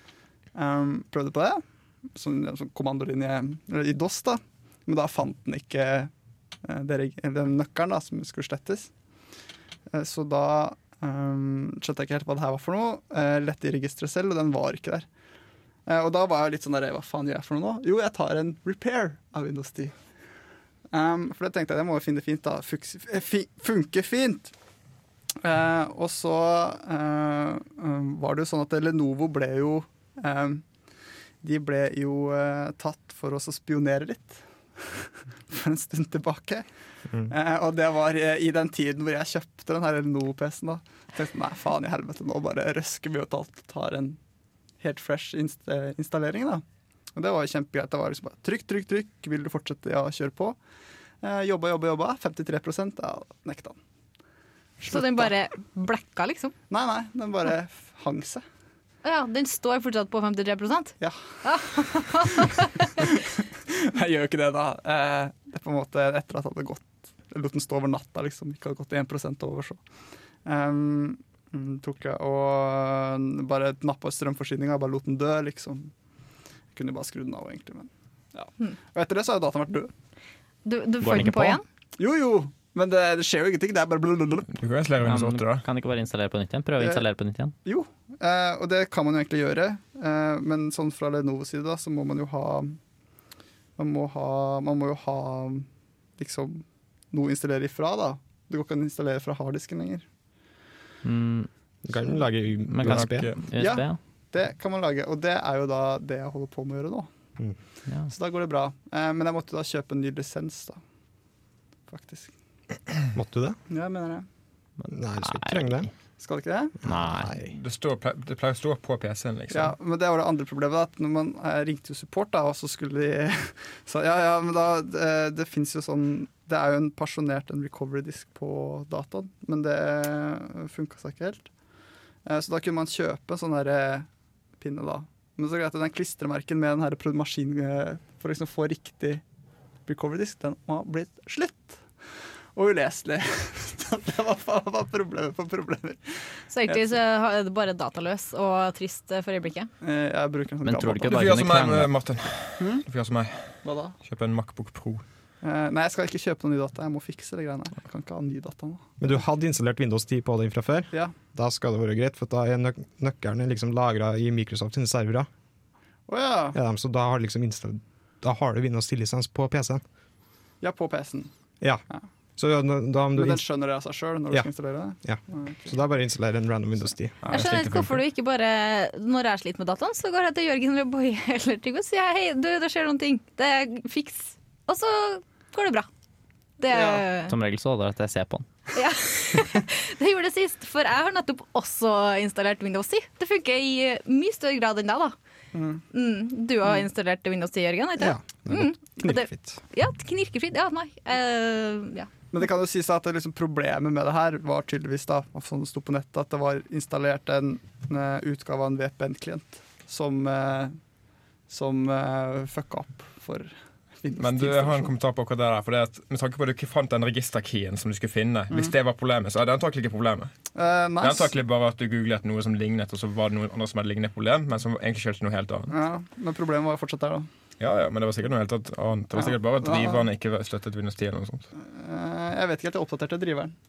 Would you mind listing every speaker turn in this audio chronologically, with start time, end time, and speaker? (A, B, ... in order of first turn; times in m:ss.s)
0:00.5-0:01.6 A
0:02.1-0:06.1 A
0:06.6-0:08.9 A
0:09.9-0:15.1 A
0:15.8-0:20.0 A
0:20.9-0:24.5 A
0:25.4-0:30.6 A
0:31.4-0:36.6 A
0:37.3-0:44.2 A
0:44.8-0:46.6 A
0:47.1-0:50.6 A
0:51.2-0:53.8 A
0:54.8-0:56.5 B
0:54.9-0:55.3 A
0:56.7-0:58.4 A
0:59.0-1:03.0 B
1:03.0-1:09.8 A
1:10.4-1:15.9 A
1:16.7-1:19.9 A
1:20.6-1:21.6 B
1:21.0-1:21.6 C
1:22.0-1:24.6 A
1:24.5-1:25.6 D
1:25.0-1:27.5 C
1:26.8-1:27.0 A
1:27.6-1:32.8 A
1:33.8-1:35.7 A
1:36.2-1:40.0 A
1:41.0-1:41.5 C
1:41.8-1:43.3 E
1:42.7-1:44.0 C
1:42.8-1:43.5 D
1:43.6-1:47.1 A
1:48.1-1:50.8 A
1:51.9-1:52.3 A
1:53.1-1:53.6 E
1:53.7-1:54.2 A
1:54.8-1:55.9 C
1:54.9-1:55.9 E
1:56.2-1:56.8 A
1:56.8-1:57.5 E
1:56.8-1:57.4 C
1:57.4-1:59.7 D
1:59.5-2:11.5 A
2:12.2-2:14.1 A
2:14.6-2:19.2 A
2:19.8-2:21.8 A
2:22.5-2:26.8 A
2:26.5-2:29.7 B
2:29.8-2:31.4 A
2:30.6-2:31.9 C
2:31.0-2:35.0 D
2:32.6-2:32.8 A
2:33.6-2:34.0 A
2:35.4-2:39.1 A
2:39.0-2:45.3 E
2:46.1-2:46.6 A
2:46.5-2:49.8 E
2:50.6-2:51.3 A
2:52.4-2:53.4 E
2:53.2-2:55.7 A
2:55.0-2:57.2 E
2:57.2-2:58.0 D
2:57.3-3:05.9 B
3:06.6-3:07.3 B
3:06.7-3:07.0 A
3:07.3-3:08.4 C
3:08.7-3:15.1 B
3:15.5-3:15.8 A
3:15.9-3:22.1 B
3:18.0-3:19.6 E
3:22.3-3:30.8 A
3:31.5-3:34.9 A
3:34.2-3:40.3 D
3:40.5-3:41.3 A
3:41.0-3:45.7 D
3:45.7-3:47.3 A
3:47.6-3:51.5 D
3:49.2-3:50.1 A
3:51.6-3:53.5 A